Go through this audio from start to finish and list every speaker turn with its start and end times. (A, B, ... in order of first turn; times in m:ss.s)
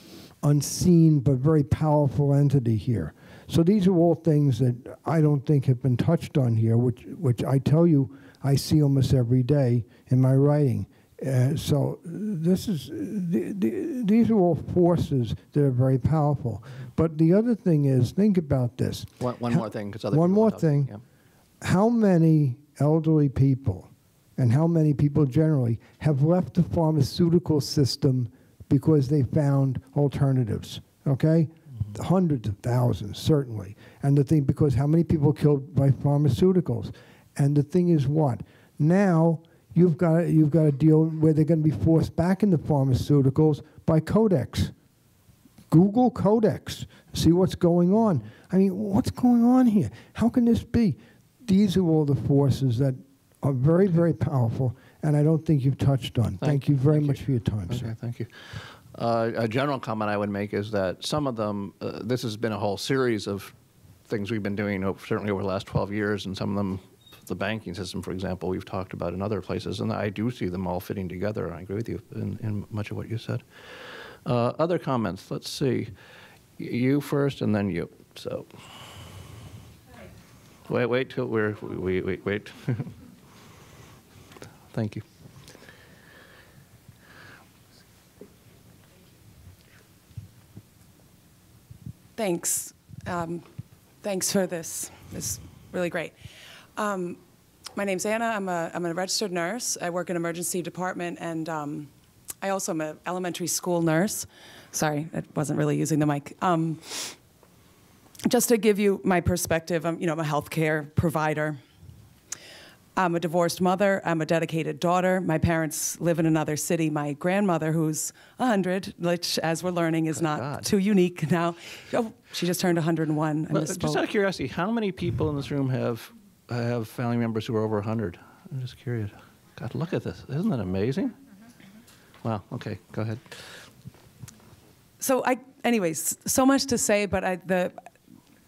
0:00.4-0:20.9 A
0:19.2-0:21.0 B
0:21.6-0:44.7 A
0:45.7-0:57.9 A
0:56.4-1:03.5 B
1:04.1-1:15.9 B
1:16.6-1:18.8 B
1:20.7-1:22.9 B
1:24.7-1:25.0 B
1:32.2-1:33.4 C
1:34.0-1:36.2 C
1:36.8-1:37.2 C
1:37.8-1:41.9 C
1:42.4-1:47.2 C
1:48.2-1:51.6 C
1:53.0-2:04.0 C
2:00.1-2:00.7 B
2:03.5-2:11.1 B
2:12.2-2:13.6 B
2:15.0-2:17.8 C